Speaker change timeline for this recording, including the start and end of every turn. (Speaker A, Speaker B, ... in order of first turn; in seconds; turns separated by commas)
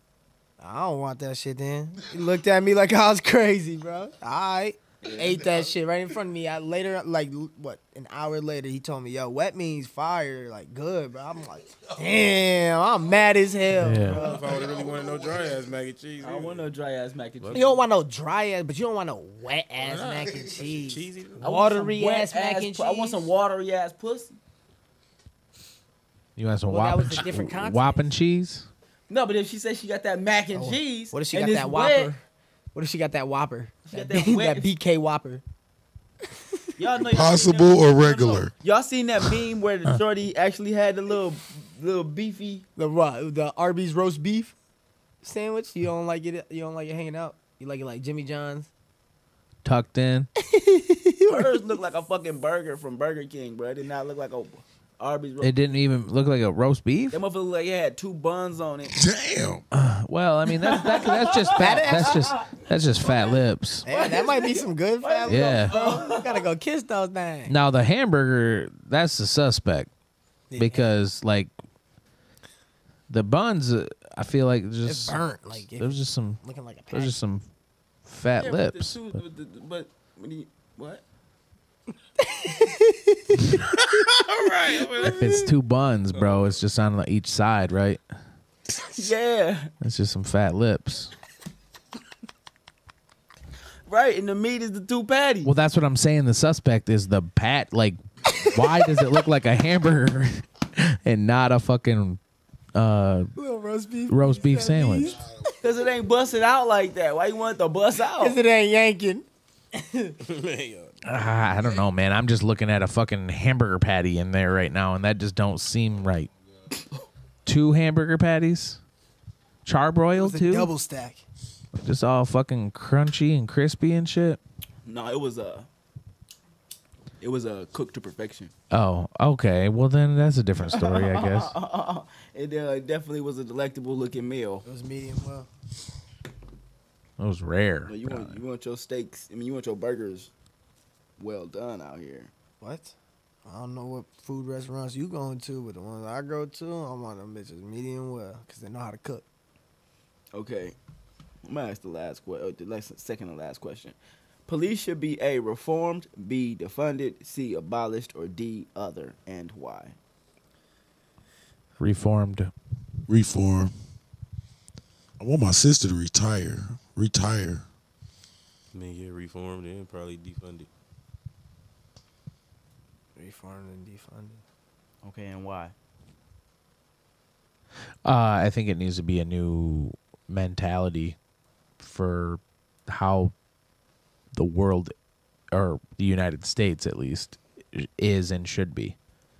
Speaker A: 0.6-14.5, Speaker B: 5.0-5.4, Speaker C: 11.7-12.0, Speaker D: 13.8-14.2, Speaker E: 13.9-16.6, Speaker C: 14.1-15.8, Speaker B: 16.2-17.8, Speaker A: 17.5-23.3, Speaker E: 19.8-21.4, Speaker C: 20.3-20.7, Speaker B: 21.4-24.4, Speaker D: 26.4-28.7, Speaker A: 26.7-28.1, Speaker B: 29.1-32.1, Speaker A: 30.5-35.4, Speaker B: 33.9-34.7, Speaker B: 36.8-42.6, Speaker C: 37.0-38.5, Speaker A: 42.8-44.5, Speaker A: 45.2-48.7, Speaker D: 49.6-50.3, Speaker A: 50.4-51.6, Speaker B: 51.3-55.5, Speaker D: 55.4-57.2, Speaker B: 57.1-58.9, Speaker C: 58.9-59.6, Speaker D: 59.7-63.9, Speaker B: 60.6-66.4, Speaker A: 61.5-62.4, Speaker A: 63.8-67.5, Speaker D: 65.3-65.7, Speaker D: 67.5-69.9, Speaker A: 70.5-71.0, Speaker D: 70.5-71.5, Speaker D: 73.1-77.4, Speaker A: 74.8-77.2, Speaker D: 78.0-79.2, Speaker B: 78.3-81.0, Speaker A: 82.2-83.4, Speaker E: 83.9-85.1, Speaker B: 84.7-85.2, Speaker D: 85.0-88.0, Speaker B: 86.1-86.5, Speaker B: 88.9-89.7, Speaker D: 89.8-91.1, Speaker B: 93.9-95.5, Speaker D: 95.4-102.2, Speaker D: 102.7-103.3, Speaker A: 103.3-105.5, Speaker D: 104.1-105.2, Speaker C: 104.4-106.5, Speaker B: 105.6-108.4, Speaker A: 108.2-110.2, Speaker E: 110.2-111.1, Speaker D: 111.0-116.3, Speaker C: 116.2-116.6, Speaker D: 117.5-118.8, Speaker D: 119.6-120.7, Speaker A: 120.1-121.2, Speaker D: 121.7-124.4, Speaker B: 124.8-125.7, Speaker B: 127.2-128.5, Speaker D: 128.7-131.5, Speaker B: 130.6-134.6, Speaker A: 134.6-135.5, Speaker D: 137.2-138.4, Speaker B: 137.8-140.3, Speaker B: 141.2-142.3, Speaker A: 142.6-142.9, Speaker A: 143.4-149.2, Speaker B: 150.3-150.8, Speaker B: 151.4-160.0, Speaker D: 161.8-162.5, Speaker C: 163.1-163.7, Speaker C: 165.2-167.6, Speaker E: 168.7-170.7, Speaker A: 173.2-174.4, Speaker B: 175.0-175.7, Speaker D: 178.0-181.2, Speaker D: 181.8-183.3, Speaker D: 184.3-184.9, Speaker D: 185.5-188.9